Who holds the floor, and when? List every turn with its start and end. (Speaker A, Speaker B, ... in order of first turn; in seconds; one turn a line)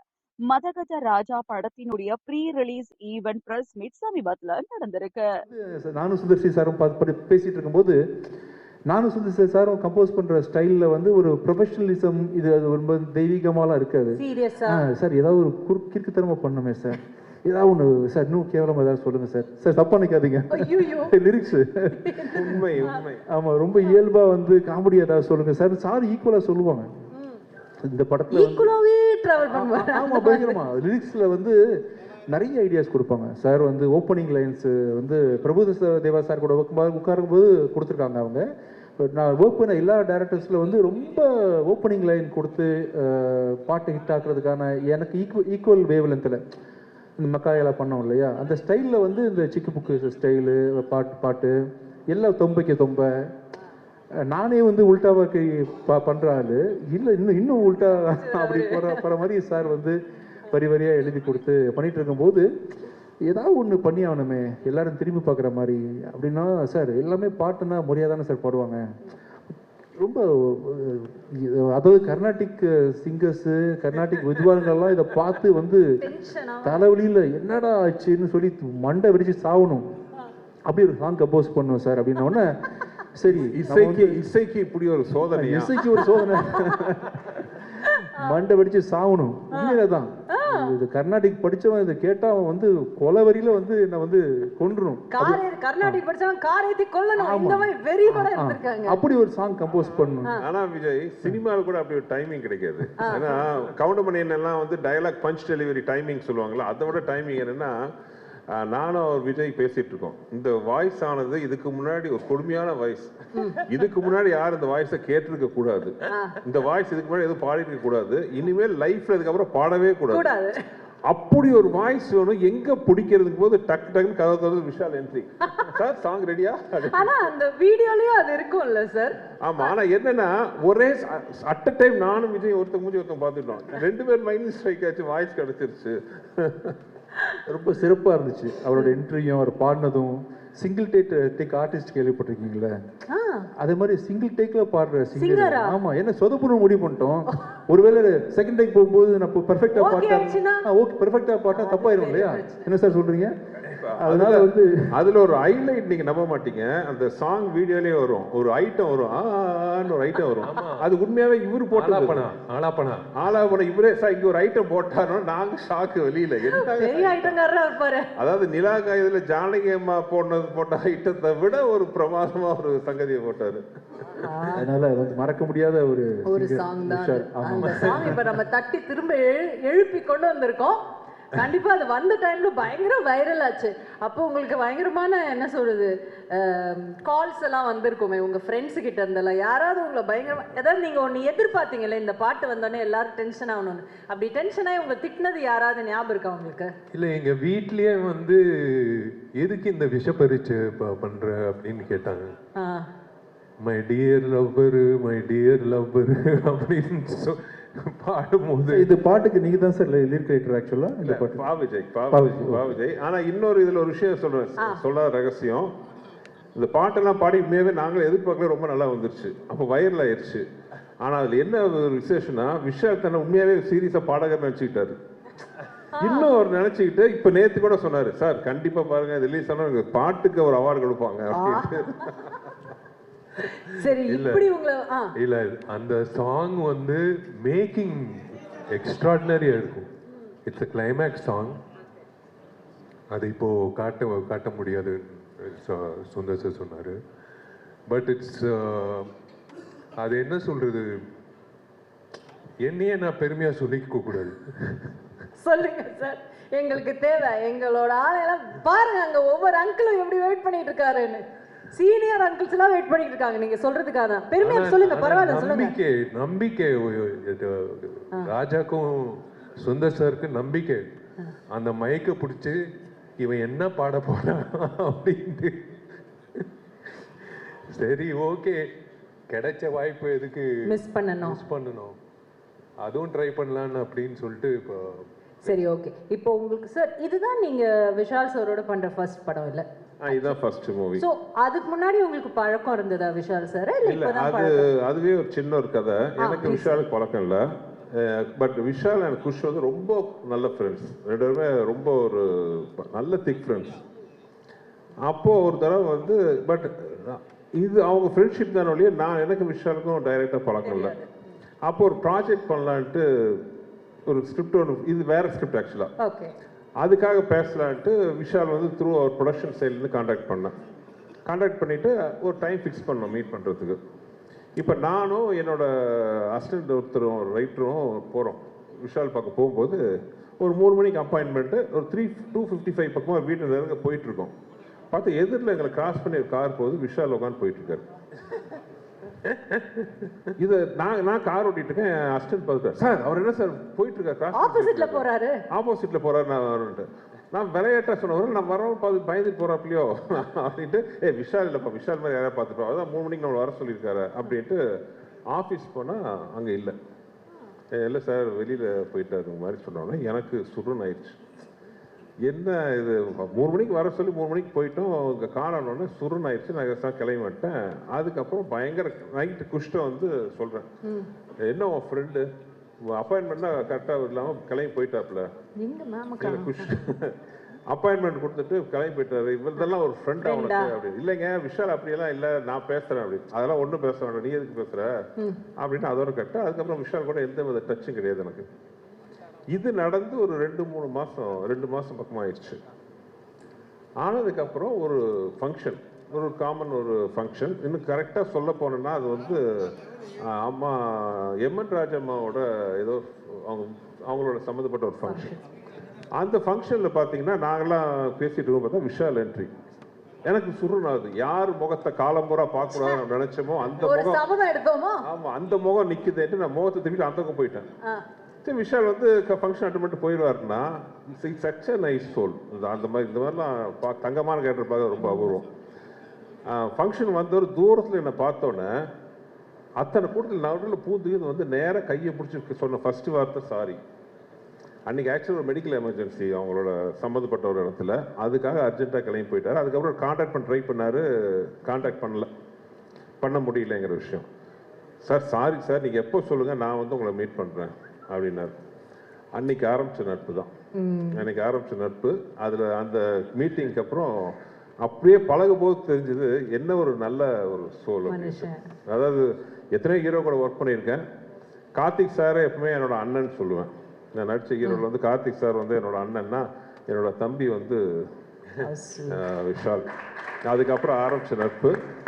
Speaker A: 0.4-5.2
Speaker B: 5.5-8.0
Speaker B: 8.9-26.9
Speaker C: 14.1-14.8
Speaker C: 20.5-21.1
Speaker C: 22.0-23.0
Speaker D: 22.3-23.2
Speaker C: 27.1-27.4
Speaker B: 27.8-28.7
Speaker C: 28.3-30.6
Speaker B: 29.5-31.6
Speaker B: 32.3-38.4
Speaker B: 39.0-46.4
Speaker B: 47.2-51.5
Speaker B: 52.1-53.1
Speaker B: 54.3-60.0
Speaker C: 58.0-59.0
Speaker B: 60.5-62.4
Speaker B: 63.3-68.8
Speaker B: 70.0-75.9
Speaker C: 76.0-76.9
Speaker B: 76.6-79.8
Speaker B: 80.7-84.2
Speaker D: 83.3-86.2
Speaker B: 85.3-87.6
Speaker C: 86.0-86.8
Speaker C: 87.8-88.4
Speaker B: 88.2-96.0
Speaker C: 89.5-89.8
Speaker C: 90.3-90.7
Speaker C: 95.1-99.0
Speaker B: 97.2-100.4
Speaker D: 99.8-107.7
Speaker C: 103.0-103.4
Speaker D: 108.5-120.3
Speaker C: 113.3-113.7
Speaker C: 116.1-116.4
Speaker C: 120.1-120.5
Speaker D: 121.1-127.3
Speaker C: 126.9-129.7
Speaker D: 129.4-136.8
Speaker B: 137.5-142.7
Speaker C: 138.7-139.0
Speaker C: 143.1-143.5
Speaker B: 143.6-153.3
Speaker C: 145.2-145.8
Speaker C: 149.7-150.7
Speaker C: 151.5-152.7
Speaker D: 153.7-162.3
Speaker B: 154.0-154.9
Speaker E: 160.4-160.9
Speaker E: 161.7-163.1
Speaker D: 163.2-167.4
Speaker C: 166.5-168.1
Speaker D: 168.2-173.6
Speaker C: 174.2-174.7
Speaker B: 174.5-178.2
Speaker C: 176.2-180.8
Speaker C: 181.3-196.7
Speaker E: 196.9-202.3
Speaker C: 202.6-202.9
Speaker E: 203.6-208.8
Speaker B: 208.7-211.4
Speaker D: 211.0-215.7
Speaker B: 212.1-212.8
Speaker D: 216.5-220.4
Speaker D: 221.0-224.9
Speaker C: 225.9-226.3
Speaker D: 226.0-232.5
Speaker C: 231.3-232.1
Speaker C: 233.4-235.1
Speaker E: 233.8-234.5
Speaker E: 235.2-239.9
Speaker E: 240.4-241.6
Speaker E: 243.1-246.9
Speaker E: 247.9-249.1
Speaker E: 250.0-250.8
Speaker E: 252.6-254.8
Speaker C: 255.3-265.8
Speaker E: 264.4-270.9
Speaker E: 271.5-272.6
Speaker E: 273.2-275.6
Speaker E: 277.7-278.6
Speaker E: 279.3-282.0
Speaker C: 280.6-281.4
Speaker E: 282.8-285.6
Speaker C: 285.4-290.4
Speaker D: 290.0-291.0
Speaker C: 291.0-294.6
Speaker D: 293.8-297.4
Speaker C: 296.2-296.7
Speaker D: 297.9-303.8
Speaker D: 305.1-310.9
Speaker C: 310.6-311.1
Speaker D: 311.6-313.4
Speaker D: 314.1-315.9
Speaker C: 316.0-316.3
Speaker D: 316.8-320.5
Speaker D: 321.2-323.8
Speaker D: 324.6-329.8
Speaker D: 330.4-334.3
Speaker D: 334.9-337.8
Speaker E: 339.5-339.8
Speaker D: 340.4-354.6
Speaker C: 344.3-345.4
Speaker D: 355.3-356.7
Speaker D: 357.7-361.2
Speaker D: 362.2-370.7
Speaker D: 371.4-372.2
Speaker D: 372.9-375.3
Speaker C: 375.6-376.7
Speaker D: 376.2-377.1
Speaker D: 377.7-384.9
Speaker C: 380.2-380.7
Speaker D: 385.6-388.4
Speaker D: 389.5-392.6
Speaker D: 394.0-405.3
Speaker C: 405.1-405.4
Speaker D: 406.1-409.5
Speaker D: 410.2-414.2
Speaker C: 412.7-413.0
Speaker C: 413.8-415.0
Speaker D: 415.1-417.7
Speaker D: 418.4-425.4
Speaker C: 425.0-425.4
Speaker D: 426.5-428.7
Speaker D: 429.8-433.8
Speaker D: 434.9-442.3
Speaker D: 443.2-444.2
Speaker D: 445.0-448.5
Speaker D: 449.4-450.5
Speaker C: 450.8-451.3
Speaker D: 451.1-461.0
Speaker C: 458.1-458.6
Speaker D: 461.7-467.8
Speaker C: 468.6-469.2
Speaker D: 469.1-469.8
Speaker D: 470.4-471.7